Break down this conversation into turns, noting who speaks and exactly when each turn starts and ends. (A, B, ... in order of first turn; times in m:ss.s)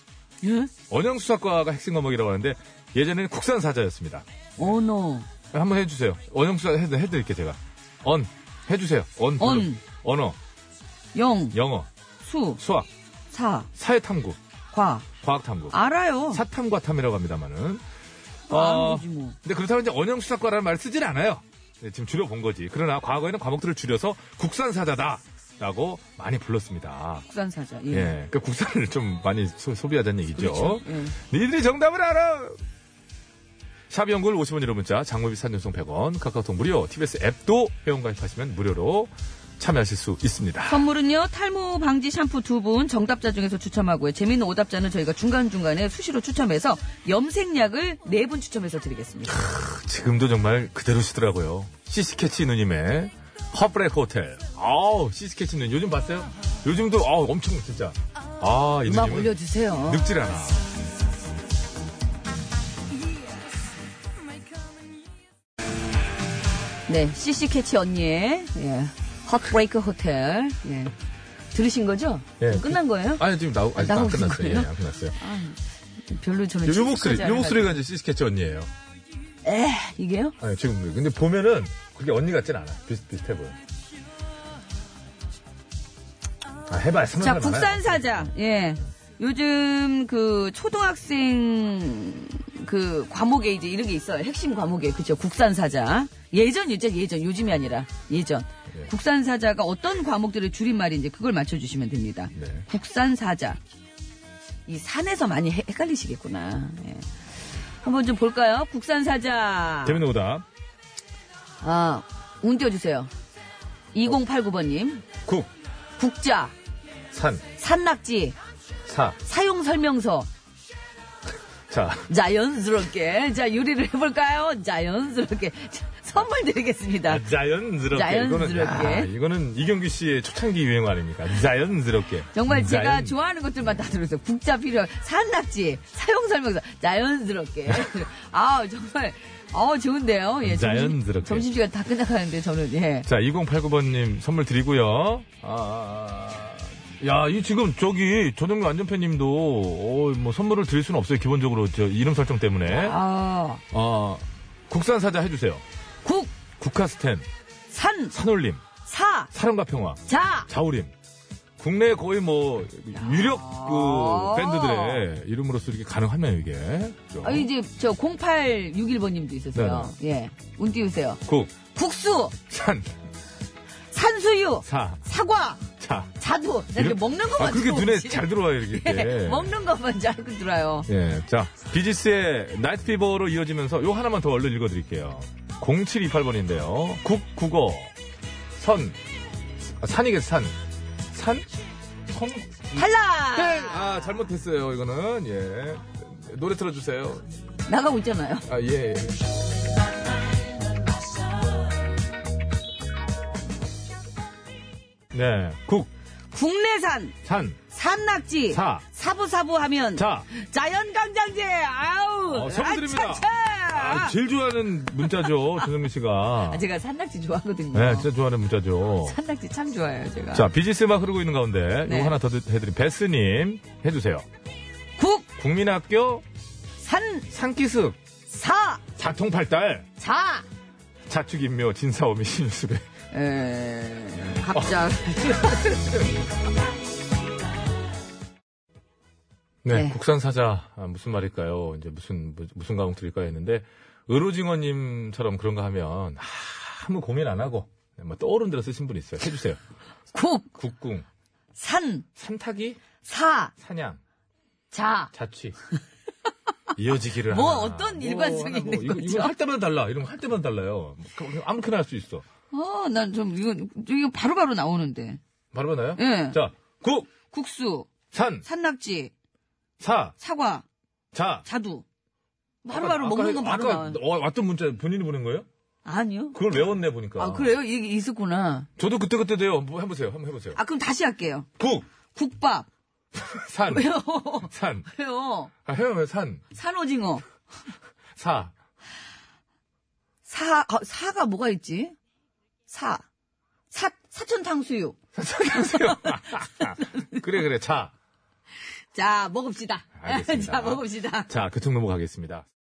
0:00.4-0:00.7 A
0:00.9-0:04.8 B
0:04.6-0:05.3 A
0:05.5-0:10.4 B
0:09.4-0:09.8 A
0:11.1-0:11.6 A
0:11.5-0:11.9 B
0:12.2-0:12.6 A
0:12.6-0:12.9 B
0:13.3-0:13.7 A
0:13.8-0:14.4 B
0:14.7-0:15.1 A
0:15.2-0:15.8 B
0:15.7-0:16.4 A
0:16.3-0:17.8 B
0:18.5-0:27.2 B
0:18.5-0:19.4 A
0:27.3-0:28.1 A
0:27.9-0:32.6 B
0:30.4-0:31.1 A
0:33.9-0:40.8 B
0:40.6-0:49.5 A
0:49.3-1:00.6 B
0:58.8-1:00.1 A
1:06.9-1:10.9 A
1:11.5-1:13.2 A
1:12.4-1:15.2 B
1:13.8-1:17.8 A
1:16.6-1:18.7 B
1:19.4-1:20.4 A
1:20.4-1:23.6 B
1:26.7-1:28.3 B
1:27.2-1:43.6 A
1:42.3-1:42.6 B
1:44.7-1:47.1 A
1:47.8-1:50.0 A
1:49.8-1:50.4 B
1:51.6-1:53.1 A
1:53.9-1:55.0 A
1:55.2-1:55.5 B
1:56.0-1:56.5 A
1:57.1-1:57.4 B
1:57.6-1:58.4 A
1:58.8-1:59.2 B
1:59.2-2:00.3 A
2:01.7-2:02.1 B
2:02.1-2:07.2 A
2:07.1-2:13.2 B
2:07.9-2:09.1 A
2:12.3-2:23.1 A
2:20.4-2:21.5 B
2:23.0-2:33.0 B
2:32.7-2:33.6 A
2:33.7-2:35.6 B
2:36.0-2:36.3 A
2:36.6-2:37.3 B
2:37.7-2:38.1 A
2:38.1-2:38.6 B
2:38.8-2:39.3 A
2:39.3-2:40.9 B
2:40.1-2:40.5 A
2:41.6-2:47.5 B
2:42.9-2:45.0 A
2:47.2-2:52.4 A
2:49.5-2:49.9 B
2:51.2-2:51.5 B
2:52.5-2:52.9 B
2:53.9-2:55.6 A
2:54.6-2:55.0 B
2:55.8-2:56.1 B
2:56.2-3:00.9 A
2:56.7-2:59.5 B
3:00.9-3:07.9 B
3:08.6-3:09.0 B
3:09.6-3:10.5 B
3:11.1-3:11.5 B
3:12.1-3:17.3 B
3:12.8-3:13.8 A
3:17.7-3:18.5 A
3:18.5-3:19.3 B
3:25.1-3:25.9 B
3:26.3-3:27.2 A
3:27.2-3:27.6 B
3:27.7-3:34.1 A
3:28.5-3:28.8 B
3:30.0-3:30.3 B
3:32.3-3:36.6 B
3:35.0-3:35.6 A
3:36.5-3:38.1 A
3:37.7-3:39.2 B
3:39.0-3:40.5 A
3:40.3-3:44.2 B
3:41.8-3:42.1 A
3:45.0-3:45.3 A
3:45.4-3:46.2 B
3:46.8-3:47.3 A
3:47.3-3:48.0 B
3:48.3-3:48.8 A
3:49.0-3:49.9 B
3:50.0-3:50.4 A
3:51.1-3:52.9 B
3:53.1-3:55.9 A
3:54.5-3:56.1 B
3:59.6-4:09.6 B
3:59.7-4:00.0 A
4:10.1-4:10.5 A
4:10.5-4:11.0 B
4:11.6-4:12.0 A
4:12.2-4:12.8 B
4:13.0-4:13.5 A
4:13.6-4:14.0 B
4:14.7-4:15.1 A
4:15.1-4:15.5 B
4:16.8-4:22.2 B
4:17.3-4:19.3 A
4:22.5-4:25.2 A
4:25.5-4:27.1 B
4:26.0-4:26.4 A
4:27.3-4:27.9 A
4:28.1-4:28.4 B
4:28.4-4:29.1 A
4:29.8-4:30.2 B
4:30.2-4:30.6 A
4:31.1-4:31.4 B
4:31.4-4:31.8 A
4:32.6-4:34.0 A
4:32.7-4:35.5 B
4:35.8-4:36.4 A
4:36.3-4:37.6 B
4:37.2-4:38.7 A
4:38.8-4:40.6 B
4:40.5-4:41.5 A
4:41.6-4:41.8 B
4:42.1-4:42.7 A
4:43.1-4:44.9 B
4:43.7-4:45.5 A
4:45.6-4:46.4 B
4:46.5-4:47.2 A
4:48.2-4:48.5 B
4:50.2-4:52.0 A
4:52.7-4:53.0 A
4:53.7-4:55.0 A
4:55.1-4:57.9 B
4:55.5-4:57.2 A
4:58.9-5:01.3 A
5:00.0-5:02.4 B